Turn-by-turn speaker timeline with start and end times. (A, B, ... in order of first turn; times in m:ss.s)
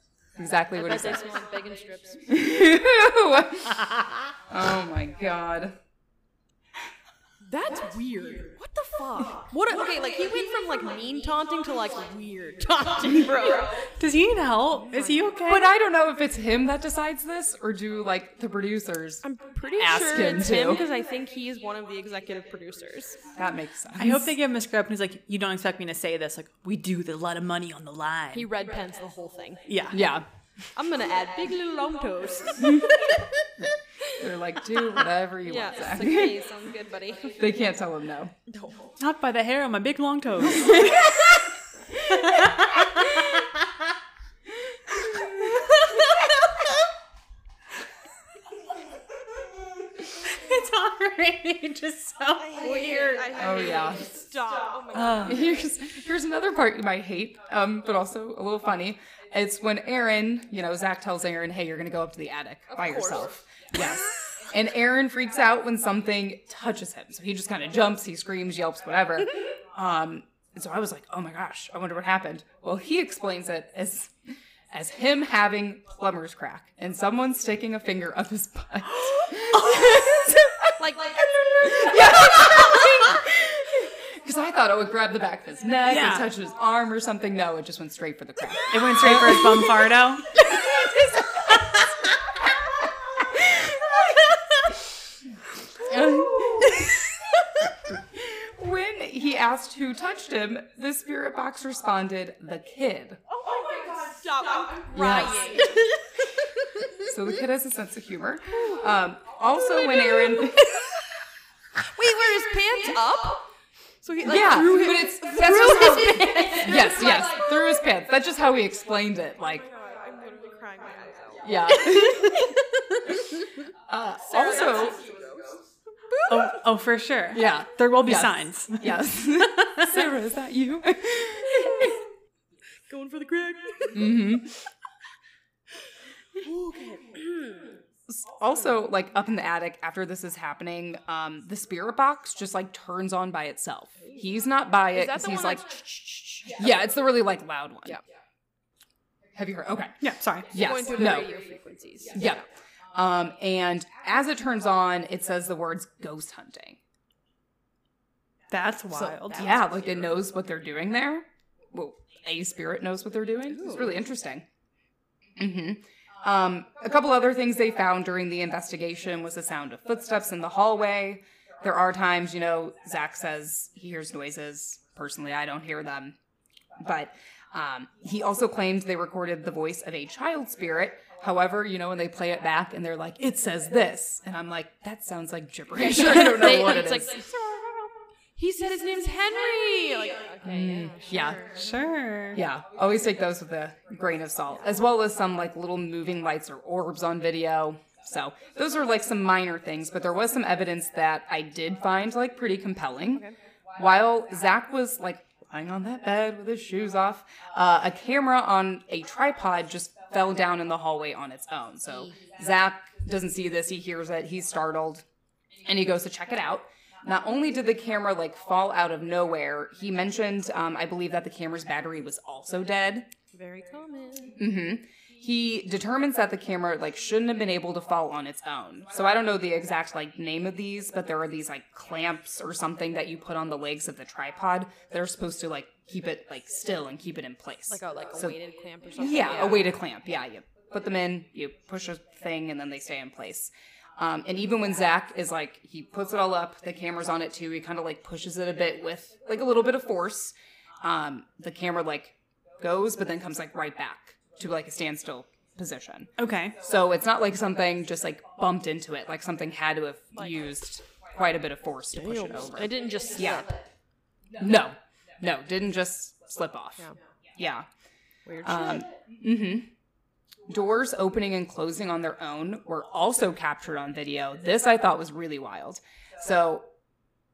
0:00.4-0:01.2 A
0:00.7-0:02.2 B
0:02.3-0:05.8 A
0:07.4-0:13.9 B
0:14.0-0:15.7 C
0:14.8-0:15.3 B
0:15.5-0:19.2 A
0:19.2-0:23.3 B
0:19.8-0:20.8 A
0:23.4-0:24.3 A
0:24.0-0:28.5 C
0:28.3-0:29.9 B
0:29.7-0:30.0 C
0:29.9-0:30.3 A
0:30.8-0:33.1 B
0:34.1-0:36.4 A
0:35.4-0:37.4 B
0:37.4-0:38.3 A
0:38.5-0:38.9 B
0:39.0-0:41.1 C
0:40.6-0:41.0 A
0:42.1-0:42.9 C
0:50.2-0:53.0 C
0:52.4-0:55.6 B
0:53.4-0:54.1 A
0:54.9-1:14.1 A
1:02.7-1:03.3 B
1:14.7-1:20.8 A
1:20.8-1:22.6 B
1:21.6-1:31.8 A
1:25.8-1:26.3 C
1:28.7-1:30.3 C
1:33.3-1:33.8 A
1:35.8-1:36.9 A
1:38.1-1:43.2 A
1:43.3-1:45.9 B
1:44.9-1:45.5 A
1:47.0-1:50.9 A
1:51.8-1:53.5 B
1:54.0-1:57.5 B
1:54.2-1:59.6 A
1:59.6-2:02.5 B
2:01.4-2:02.5 A
2:03.9-2:05.0 A
2:04.2-2:06.5 B
2:06.3-2:09.9 C
2:07.3-2:12.0 A
2:11.5-2:12.0 B
2:12.9-2:14.2 B
2:13.9-2:14.5 A
2:16.4-2:17.7 B
2:18.1-2:28.0 A
2:24.9-2:26.5 B
2:29.4-2:31.3 A
2:30.0-2:30.6 C
2:30.5-2:32.4 B
2:32.1-2:32.4 A
2:32.9-2:36.8 A
2:38.5-2:39.5 C
2:38.9-2:39.6 B
2:39.4-2:44.4 A
2:43.5-2:43.9 B
2:45.4-2:56.2 A
2:56.8-3:07.2 A
3:05.8-3:11.7 B
3:10.5-3:11.5 A
3:11.5-3:12.4 C
3:12.3-3:23.2 A
3:23.8-3:35.0 A
3:35.6-3:43.1 A
3:43.3-3:44.4 B
3:44.4-3:58.4 A
3:57.7-3:59.8 B
3:59.0-4:23.5 A
4:16.2-4:16.6 C
4:21.9-4:23.6 B
4:24.4-4:26.8 A
4:27.4-4:27.7 A
4:28.3-4:28.9 B
4:28.4-4:29.7 A
4:30.5-4:36.7 A